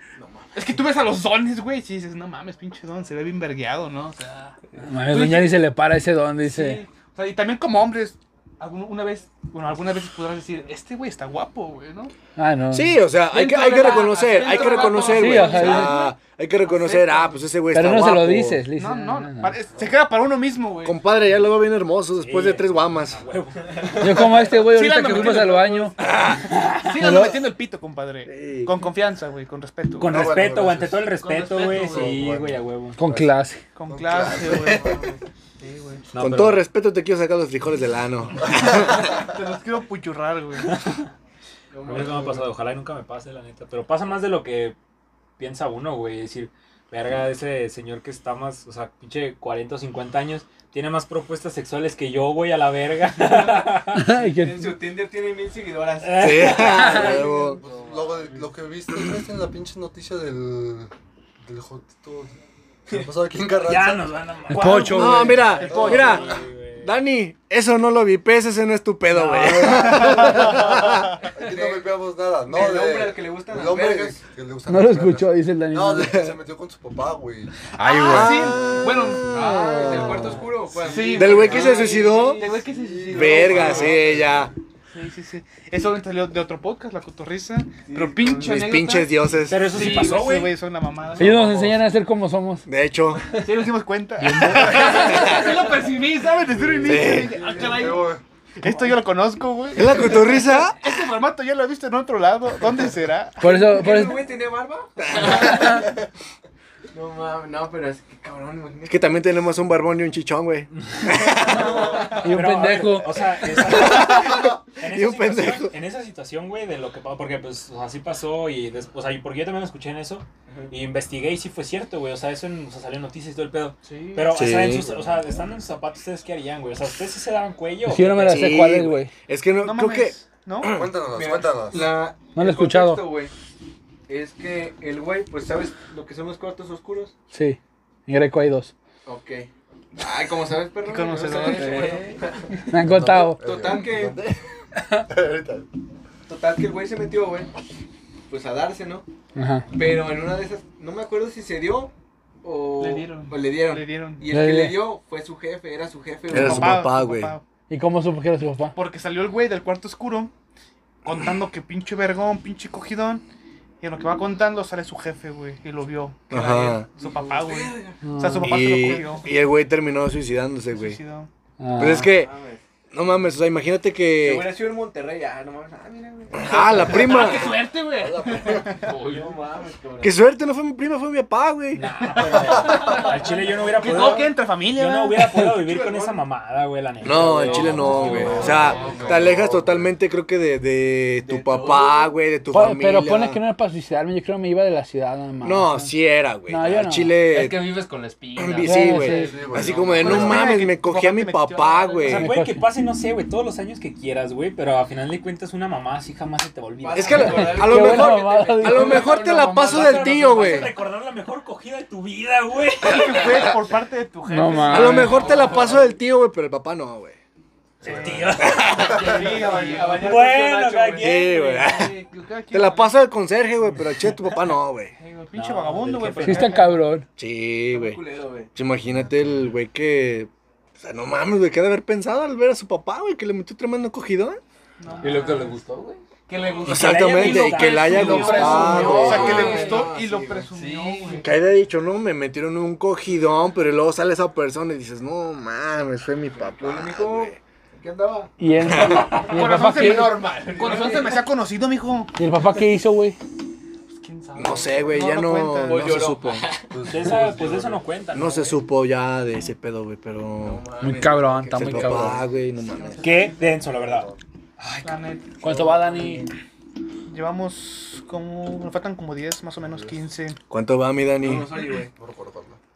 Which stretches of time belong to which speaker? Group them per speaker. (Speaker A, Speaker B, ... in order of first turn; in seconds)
Speaker A: 0.2-0.8, 14.3-15.9, 41.7-42.5, 53.2-58.1, 71.4-71.9, 72.4-74.2, 79.3-82.7, 83.4-84.0, 87.8-88.7, 97.0-97.7, 103.5-105.9, 106.9-109.2, 111.5-112.3, 131.1-133.3, 134.1-137.1, 139.0-142.6, 143.3-144.2, 146.3-147.5, 148.3-149.1, 149.7-156.9, 166.3-168.1, 172.1-172.6, 174.2-177.7, 178.9-180.2, 185.4-186.2, 187.1-189.1, 191.2-192.2, 206.8-209.2, 215.1-215.7, 218.9-221.3, 227.7-228.5, 237.9-240.5, 246.4-251.3, 255.6-256.7, 260.4-261.7, 265.8-266.1, 271.2-271.9
Speaker B: 0.5-4.5, 5.1-5.5, 6.4-12.1, 13.3-16.1, 16.7-17.3, 18.7-21.0, 24.6-30.3, 31.2-32.2, 33.7-35.0, 35.6-36.0, 38.7-40.8, 64.5-66.2, 69.5-70.7, 77.9-79.8, 80.8-83.9, 84.9-91.4, 93.4-104.1, 123.8-124.3, 129.6-130.8, 140.8-141.9, 152.8-154.2, 156.3-157.4, 158.7-160.3, 161.0-163.2, 163.8-169.3, 170.7-171.3, 176.9-178.9, 181.8-183.2, 183.7-185.3, 187.8-188.5, 200.0-202.2, 212.8-215.5, 217.8-220.3, 221.3-222.9, 224.9-226.8, 234.8-235.5, 236.3-241.3, 249.2-252.2, 253.9-256.0, 262.7-263.5, 264.8-265.4, 267.1-270.4
Speaker C: 4.8-6.8, 12.3-12.9, 15.0-16.0, 17.7-19.6, 24.0-25.9, 26.9-27.4, 33.0-33.6, 53.9-54.8, 64.5-65.5, 74.7-76.2, 77.8-78.3, 91.2-92.6, 94.2-95.3, 103.4-104.2, 112.2-113.2, 127.8-129.1, 132.3-133.1, 137.3-138.7, 142.7-143.4, 149.3-149.7, 154.3-154.8, 157.7-158.7, 168.0-168.5, 171.6-172.1, 192.5-195.9, 196.5-197.1, 198.6-199.3, 202.1-202.6, 207.2-209.1, 214.2-215.3, 226.2-227.1, 248.4-250.3, 252.2-253.2, 260.8-262.2, 265.4-266.2
Speaker D: 12.7-18.6, 20.8-23.2, 26.0-26.4, 28.2-28.8, 36.2-39.1, 56.2-57.6, 64.9-66.3, 66.8-71.1, 77.9-80.4, 81.1-82.4, 83.1-84.5, 88.4-89.8, 91.3-91.6, 92.7-93.3, 94.9-95.6, 96.8-97.4, 99.7-101.0, 105.0-105.8, 108.9-111.7, 113.6-115.7, 124.3-124.9, 128.2-130.9, 156.3-157.3, 166.3-166.9, 168.4-171.0, 171.8-172.3, 172.9-174.5, 176.4-177.5, 180.0-181.8, 187.0-193.4, 195.4-197.8, 198.3-202.3, 206.9-210.7, 214.7-217.2, 218.4-218.7, 220.9-221.9, 222.5-224.9, 227.2-228.0, 228.5-234.4, 236.7-239.5, 241.1-247.4, 254.3-256.4, 258.1-260.6, 261.5-263.0, 270.5-271.5
Speaker E: 22.2-24.5, 26.5-26.9, 30.0-33.0, 36.1-36.6, 40.6-41.0, 41.8-44.8, 45.4-54.1, 56.0-57.2, 63.6-67.0, 69.1-69.9, 89.5-90.5, 94.7-95.2, 110.9-111.3, 112.2-128.5, 181.7-188.6, 202.0-207.6, 208.9-213.4, 217.8-219.1, 219.8-221.8, 223.7-224.4, 225.3-226.7, 236.5-239.0, 256.8-258.6, 263.0-264.9
Speaker F: 30.0-33.3, 33.9-35.1, 56.7-60.9, 61.4-62.3, 62.9-64.3, 65.6-66.4, 71.3-77.5, 79.9-80.3, 81.4-81.8, 82.6-84.5, 97.4-98.2, 111.5-112.2, 125.0-125.3, 130.6-132.1, 142.8-144.4, 145.1-145.7, 177.9-178.8, 188.1-189.9, 199.1-200.5, 256.7-258.0, 261.5-262.2, 263.6-264.2, 269.6-270.0, 271.9-272.6
Speaker G: 89.8-90.2, 141.2-142.2, 178.7-179.4, 187.8-189.3, 197.2-200.1, 207.2-210.6, 215.2-215.8, 219.0-220.0, 235.0-236.0, 238.9-239.9, 240.5-241.2